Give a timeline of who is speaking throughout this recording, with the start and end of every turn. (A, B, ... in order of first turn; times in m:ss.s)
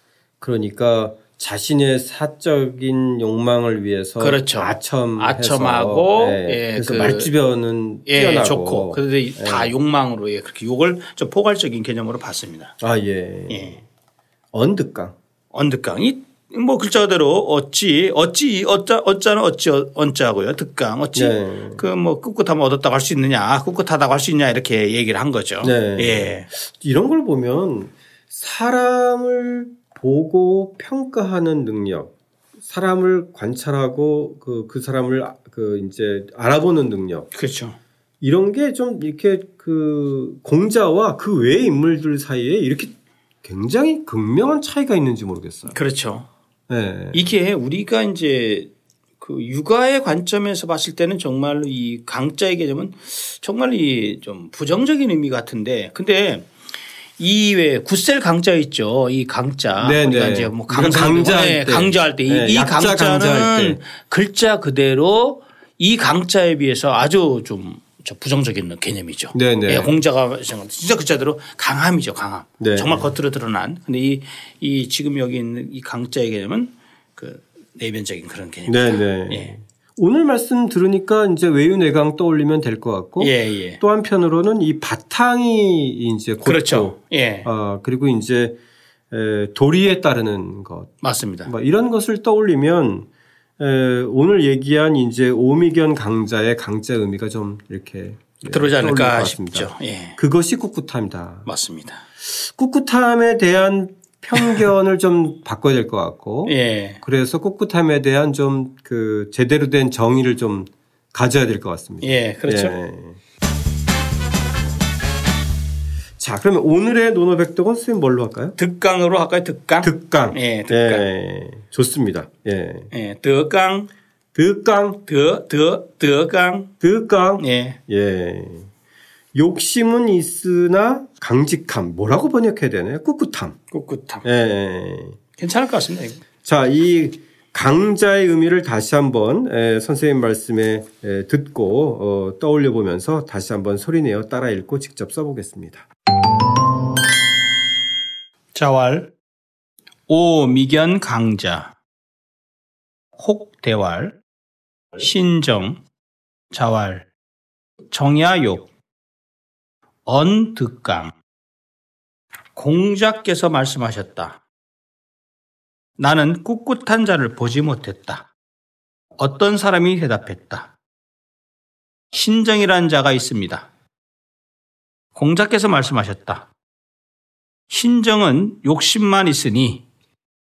0:00.4-0:09.7 A
0:04.2-0:07.3 B
0:08.0-0:12.7 B
0:12.8-0:13.8 A
0:13.5-0:13.8 B
0:14.5-0:15.1 A
0:15.5-0:26.5 B
0:21.1-0:21.8 A
0:25.6-0:32.1 A
0:32.6-0:37.3 A
0:37.3-0:37.8 B
0:38.2-0:45.8 A
0:45.7-0:46.3 B
0:46.7-0:47.3 A
0:47.1-0:56.5 B
0:57.2-1:19.5 B
0:59.8-1:03.8 A
1:09.3-1:09.9 A
1:12.6-1:13.1 A
1:18.7-1:28.6 A
1:23.2-1:23.8 B
1:26.4-1:27.5 B
1:29.1-1:30.9 A
1:31.0-1:31.5 B
1:31.5-1:33.1 A
1:33.6-1:41.5 A
1:38.5-1:40.2 B
1:41.4-1:42.0 B
1:42.2-1:53.2 A
1:46.4-1:47.0 B
1:52.0-1:52.8 B
1:56.2-1:58.6 A
1:58.6-2:01.0 B
1:59.8-2:02.9 A
2:02.9-2:03.9 B
2:04.3-2:05.0 A
2:05.0-2:06.7 B
2:06.8-2:08.7 A
2:07.4-2:07.8 B
2:09.3-2:13.6 A
2:13.7-2:14.2 B
2:14.2-2:15.2 A
2:15.4-2:16.2 B
2:16.4-2:25.8 A
2:28.5-2:29.1 B
2:30.1-2:31.7 B
2:33.2-2:34.2 B
2:35.0-2:35.8 B
2:36.5-2:37.1 B
2:37.9-2:38.7 B
2:40.0-2:41.1 B
2:42.5-2:44.4 B
2:46.0-2:48.3 B
2:49.2-2:50.7 B
2:52.1-2:53.7 B
2:55.1-2:56.5 B
2:57.7-2:59.8 B